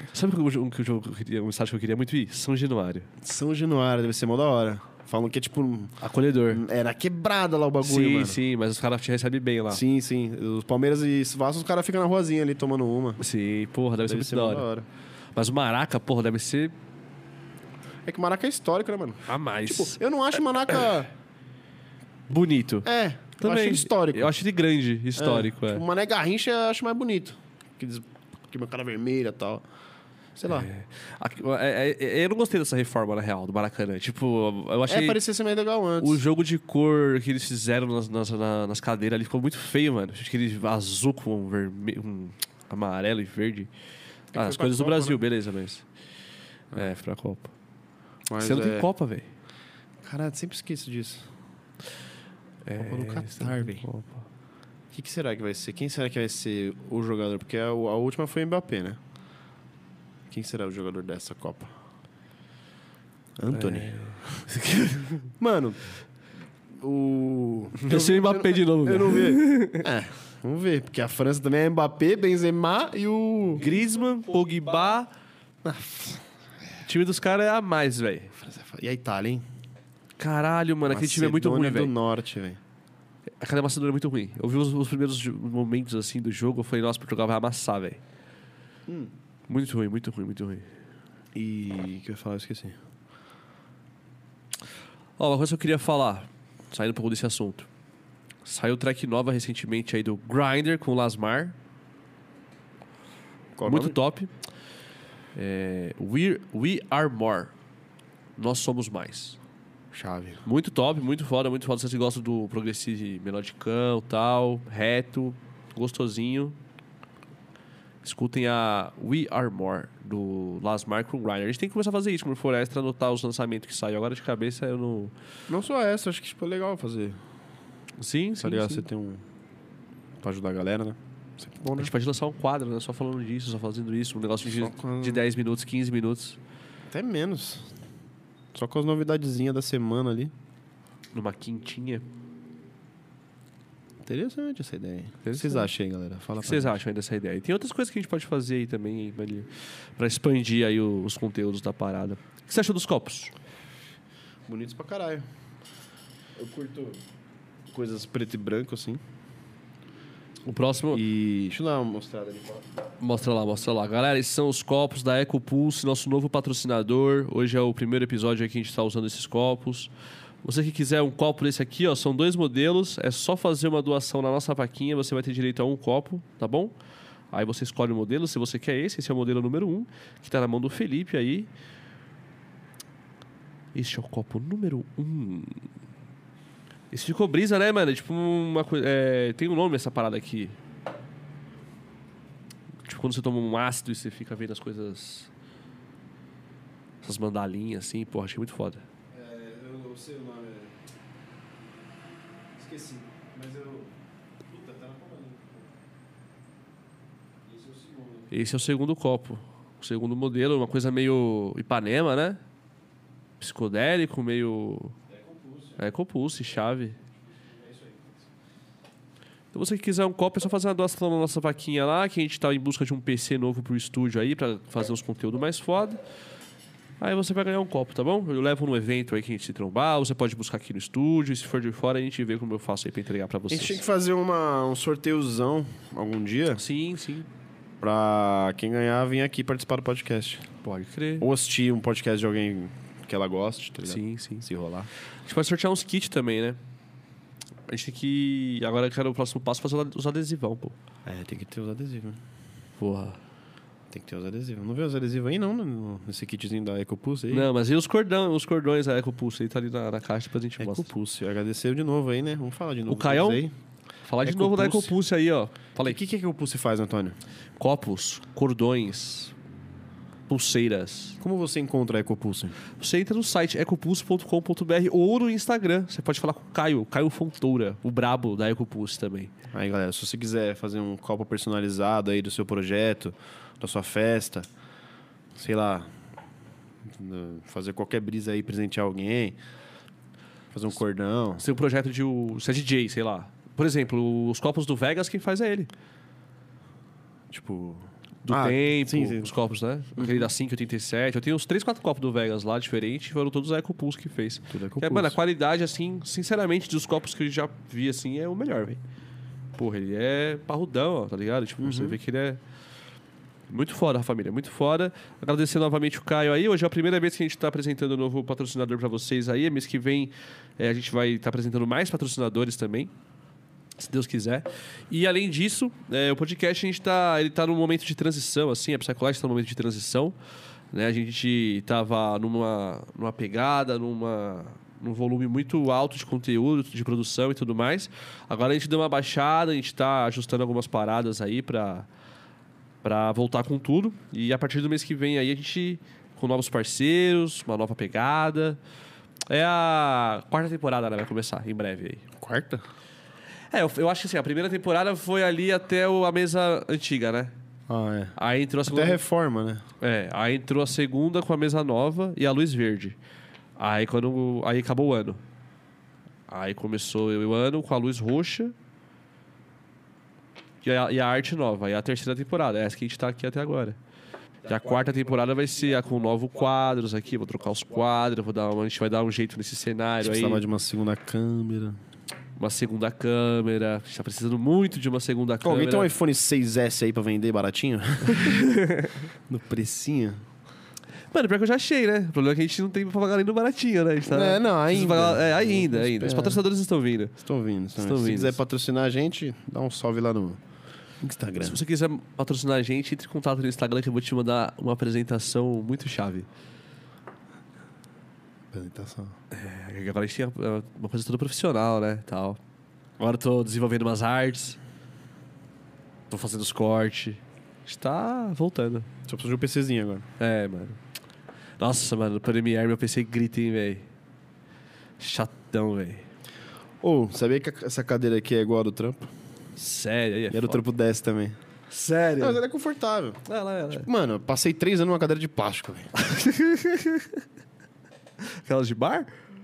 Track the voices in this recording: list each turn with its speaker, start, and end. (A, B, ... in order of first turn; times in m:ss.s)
0:00.1-0:03.1 A
0:03.2-0:06.0 B
0:06.0-0:06.6 A
0:06.5-0:08.4 B
0:07.8-0:09.8 A
0:09.7-0:13.2 B
0:13.2-0:14.7 A
0:14.1-0:14.9 B
0:15.3-0:16.7 A
0:18.0-0:21.1 B
0:19.3-0:20.0 A
0:22.3-0:22.9 A
0:22.8-0:24.3 B
0:23.4-0:25.8 A
0:25.2-0:29.6 B
0:30.4-0:30.7 B
0:30.5-0:35.2 A
0:34.9-0:36.2 B
0:36.0-0:43.7 A
0:44.3-0:45.2 B
0:44.3-0:45.8 A
0:46.7-0:47.5 A
0:48.3-0:48.9 B
0:48.4-0:49.3 A
0:50.0-0:51.3 B
0:52.6-0:54.2 A
0:52.8-0:53.8 B
0:54.9-0:59.0 B
1:00.3-1:01.7 B
1:03.4-1:04.4 B
1:03.5-1:05.3 A
1:05.4-1:05.8 B
1:06.7-1:13.6 B
1:07.8-1:09.9 A
1:13.6-1:15.1 A
1:15.6-1:16.2 B
1:16.8-1:18.3 A
1:18.3-1:19.4 B
1:20.2-1:21.9 A
1:20.9-1:22.6 B
1:23.4-1:28.0 A
1:28.9-1:29.1 B
1:29.5-1:30.7 A
1:31.3-1:32.8 B
1:35.2-1:37.7 A
1:38.4-1:41.6 A
1:43.6-1:44.0 B
1:43.6-1:44.3 A
1:45.3-1:47.5 A
1:48.4-1:49.4 A
1:49.9-1:50.4 B
1:50.4-1:56.6 A
1:58.0-2:05.1 A
2:05.5-2:07.2 B
2:08.0-2:08.8 A
2:08.4-2:09.2 B
2:10.2-2:11.9 B
2:11.8-2:16.4 A
2:14.4-2:15.2 B
2:16.9-2:17.7 B
2:18.5-2:20.3 B
2:21.1-2:22.0 A
2:24.0-2:26.8 B
2:25.2-2:25.7 A
2:26.4-2:33.3 A
2:34.5-2:35.2 B
2:36.4-2:37.0 B
2:37.7-2:39.0 B
2:40.4-2:41.0 A
2:40.9-2:42.6 B
2:43.0-2:49.9 A
2:50.4-2:56.7 A
2:57.3-3:01.5 A
3:03.7-3:05.5 A
3:06.9-3:10.6 A
3:12.8-3:15.3 A
3:17.0-3:18.8 A
3:19.1-3:20.7 B
3:22.5-3:23.9 B
3:24.4-3:25.7 B
3:27.4-3:28.3 B
3:28.3-3:32.4 A
3:33.4-3:35.0 A
3:35.1-3:35.8 B
3:35.8-3:37.0 A
3:37.4-3:38.2 B
3:39.5-3:46.0 A
3:47.0-3:53.8 A
3:53.5-3:56.6 B
3:56.5-3:57.3 A
3:57.8-4:00.4 B
4:00.6-4:01.3 A
4:01.2-4:04.9 B
4:03.8-4:04.5 A
4:05.2-4:06.6 A
4:07.7-4:10.8 A
4:11.0-4:12.2 B
4:12.8-4:13.2 A
4:13.9-4:17.5 B
4:17.3-4:20.9 A
4:20.6-4:23.5 B
4:22.9-4:23.4 A
4:24.0-4:26.0 A
4:24.2-4:24.9 B
4:25.8-4:27.2 B
4:27.6-4:29.3 A
4:30.3-4:31.2 A
4:31.2-4:32.6 B
4:32.8-4:39.3 A
4:39.5-4:44.5 B
4:45.3-4:45.9 B
4:46.8-4:49.4 B
4:50.5-4:51.4 B
4:51.4-4:55.7 A
4:57.3-4:59.3 B
4:58.2-5:08.8 A
5:00.0-5:00.3 B
5:04.5-5:05.2 B
5:09.6-5:12.4 A
5:11.6-5:12.0 B
5:13.5-5:22.9 A
5:23.8-5:30.2 A
5:30.7-5:41.9 A
5:42.8-5:48.6 A
5:49.3-5:52.0 A
5:52.2-5:52.6 B
5:53.5-5:57.3 A
5:57.7-5:58.1 B
5:58.2-5:59.0 A
5:58.7-5:59.6 B
5:59.8-6:03.0 A
6:03.6-6:05.2 A
6:06.3-6:08.5 A
6:10.6-6:13.8 A
6:14.4-6:20.4 A
6:20.0-6:21.8 B
6:22.4-6:25.9 A
6:25.4-6:28.5 B
6:28.0-6:29.0 A
6:29.3-6:30.2 B
6:31.1-6:37.2 A
6:34.0-6:36.4 B
6:37.2-6:40.4 B
6:37.8-6:38.4 A
6:41.0-6:41.6 B
6:41.4-6:46.3 A
6:48.5-6:49.2 B
6:49.3-6:52.4 A
6:53.0-6:54.6 A
6:56.1-6:58.9 A
6:59.1-7:00.1 B
7:00.2-7:00.8 A
7:01.6-7:03.8 A
7:05.0-7:06.1 A
7:06.8-7:09.1 B
7:09.6-7:10.6 A
7:10.3-7:11.4 B
7:11.7-7:12.4 A
7:12.2-7:15.9 B
7:13.2-7:13.9 A
7:15.9-7:17.2 A
7:18.2-7:19.1 A